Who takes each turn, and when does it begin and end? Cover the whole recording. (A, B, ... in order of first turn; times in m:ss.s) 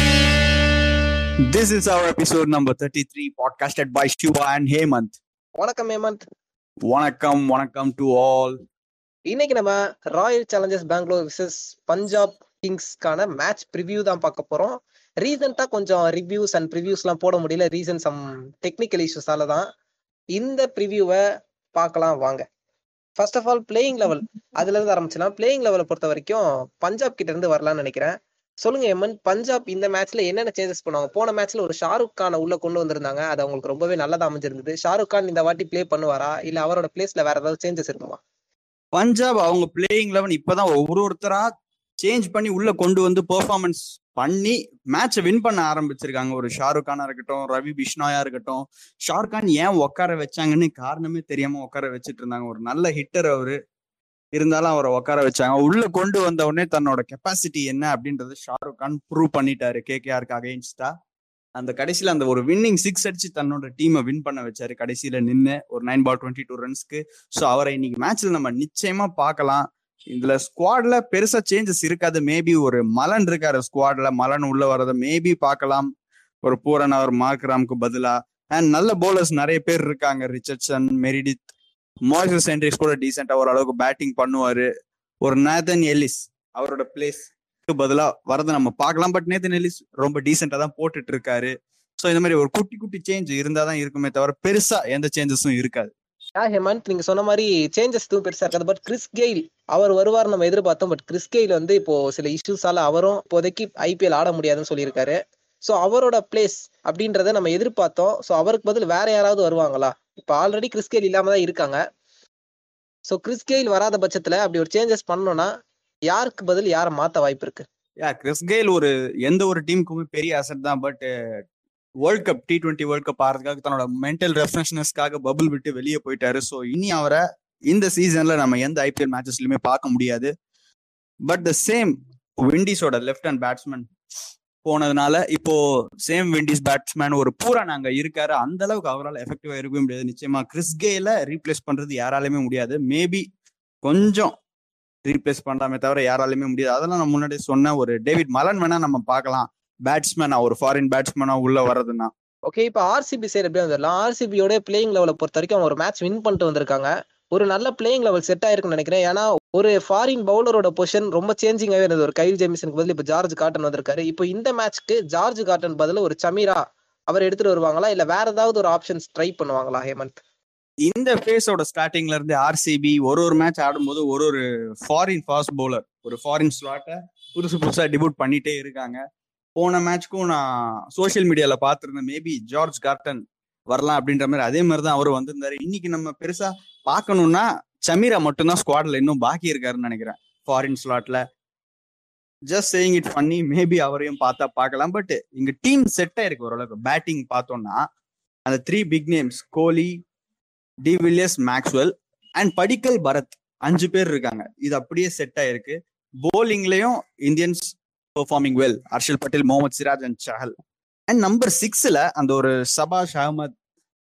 0:01.5-0:05.2 A
0:05.6-0:06.2 B
0:06.9-0:08.6 A
0:09.3-0:19.7 B
0:20.4-0:21.2 B
0:21.8-0:22.4 B
0:23.2-0:38.2 B
0:39.0-0:41.4 A
0:42.0-0:53.6 A
0:54.4-1:00.9 A
1:01.6-1:15.9 A
1:16.4-1:21.5 A
1:22.1-1:24.7 A
1:25.2-1:35.9 A
1:36.4-1:51.8 B
1:53.1-1:55.5 B
1:56.1-1:57.6 B
1:58.0-2:01.1 A
2:02.0-2:10.3 A
2:11.3-2:11.9 A
2:12.4-2:13.9 A
2:14.6-2:23.2 A
2:23.8-2:24.3 A
2:25.1-2:32.1 A
2:32.5-2:50.2 B
2:50.9-2:59.0 A
2:59.6-3:11.2 A
3:12.5-3:17.8 A
3:18.5-3:19.9 A
3:20.8-3:30.5 A
3:31.1-3:33.5 A